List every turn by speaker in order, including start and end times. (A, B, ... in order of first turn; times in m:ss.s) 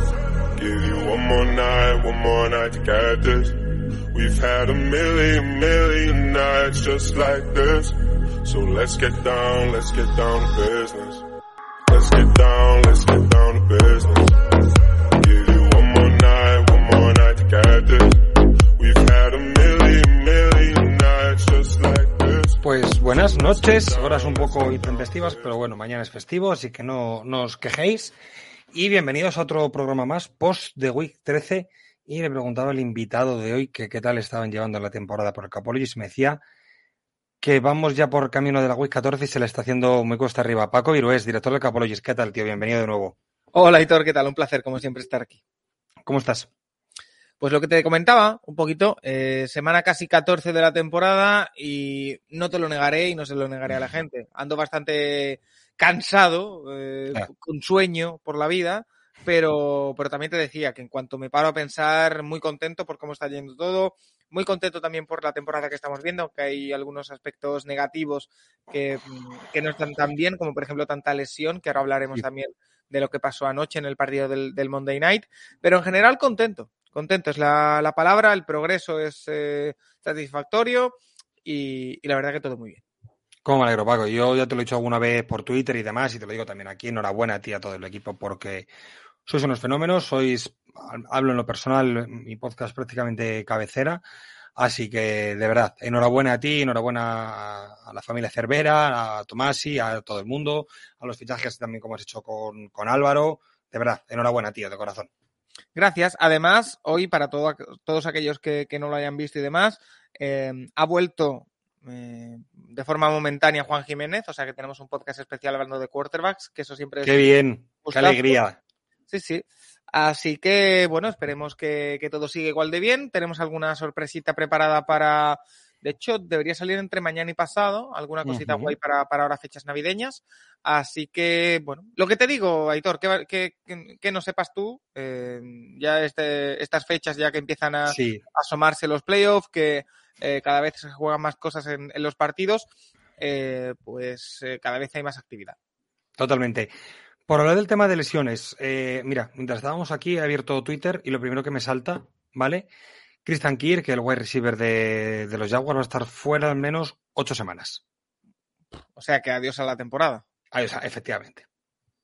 0:00.6-0:11.2 A
0:11.9-0:14.4 A
0:15.2-0:25.4 A
0:22.6-0:28.2 B
0:28.7-0:36.4 B
0:37.4-0:43.2 B
0:43.5-0:45.4 C
0:46.1-0:46.5 B
0:47.4-1:22.8 C
1:23.4-1:28.7 B
1:29.3-1:34.0 B
1:34.6-1:45.1 B
1:45.8-1:58.4 C
1:57.0-1:58.6 B
1:59.1-2:22.7 C
2:08.3-2:08.8 B
2:17.9-2:18.2 B
2:23.2-2:25.6 C
2:26.2-2:26.7 B
2:27.3-2:32.7 B
2:33.2-2:37.8 B
2:39.0-2:40.2 C
2:40.5-2:41.4 B